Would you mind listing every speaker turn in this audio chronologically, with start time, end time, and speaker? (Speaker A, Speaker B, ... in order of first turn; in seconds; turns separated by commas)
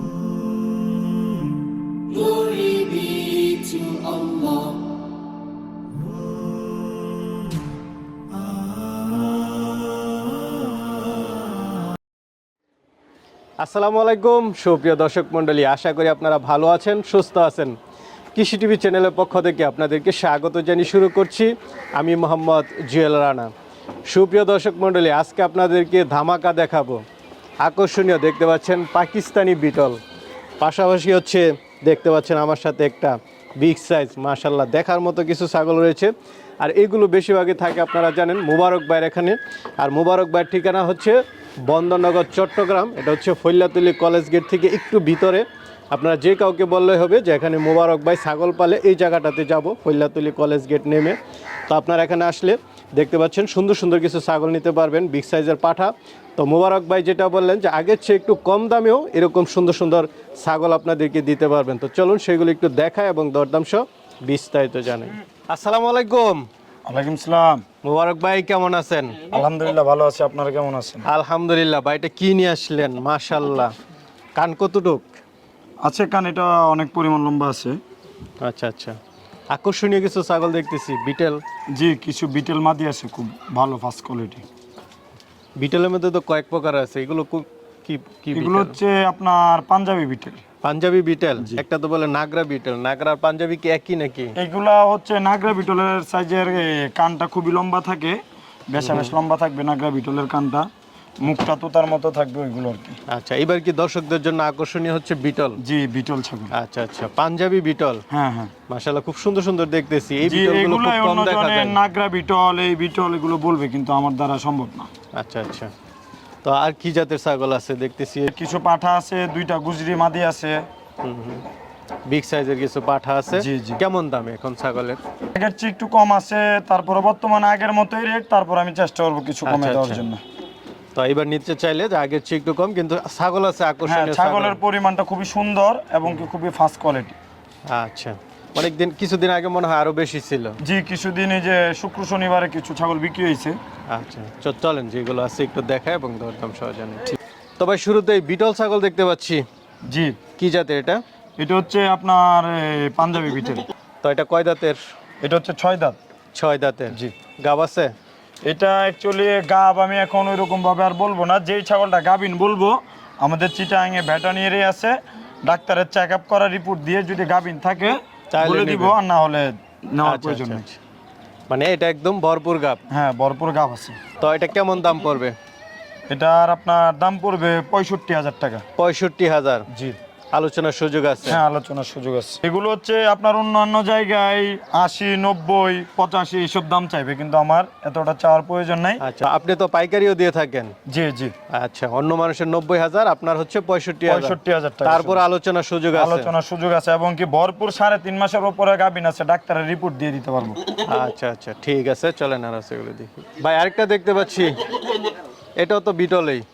Speaker A: 2.1-4.8, Speaker A: 13.6-17.8, Speaker A: 18.3-23.5, Speaker A: 24.1-27.0, Speaker A: 27.6-30.0, Speaker A: 30.6-66.5, Speaker B: 66.9-67.6, Speaker A: 67.8-69.2, Speaker B: 69.3-71.0, Speaker A: 71.0-73.7, Speaker A: 74.3-75.1, Speaker B: 75.8-77.8, Speaker A: 78.4-79.0, Speaker A: 79.5-81.4, Speaker B: 81.7-84.4, Speaker A: 85.6-88.8, Speaker B: 88.3-90.4, Speaker A: 90.6-94.3, Speaker B: 94.3-100.7, Speaker A: 98.8-99.2, Speaker B: 101.2-103.0, Speaker A: 103.1-105.6, Speaker B: 105.6-106.5, Speaker A: 106.5-108.0, Speaker B: 108.1-108.5, Speaker A: 108.7-111.8, Speaker B: 110.2-114.9, Speaker A: 115.1-115.7, Speaker A: 116.4-118.3, Speaker B: 118.3-120.6, Speaker A: 121.0-121.5, Speaker A: 122.1-125.0, Speaker B: 123.3-123.8, Speaker B: 125.3-130.2, Speaker A: 129.4-130.1, Speaker A: 130.9-134.6, Speaker B: 133.8-137.2, Speaker A: 137.7-140.6, Speaker B: 140.6-143.6, Speaker A: 143.9-149.4, Speaker B: 149.9-150.2, Speaker A: 150.4-151.0, Speaker B: 151.4-153.6, Speaker A: 154.0-154.8, Speaker B: 155.2-156.0, Speaker A: 156.3-157.9, Speaker B: 158.4-170.6, Speaker A: 168.3-169.0, Speaker A: 170.0-170.8, Speaker A: 171.5-172.8, Speaker B: 172.9-174.0, Speaker A: 174.2-175.3, Speaker B: 176.1-178.6, Speaker A: 178.8-179.7, Speaker B: 179.7-180.0, Speaker A: 180.3-181.4, Speaker B: 181.3-189.0, Speaker A: 189.0-190.7, Speaker B: 190.9-191.3, Speaker A: 191.5-196.3, Speaker B: 194.1-195.2, Speaker B: 195.9-200.7, Speaker A: 200.7-206.4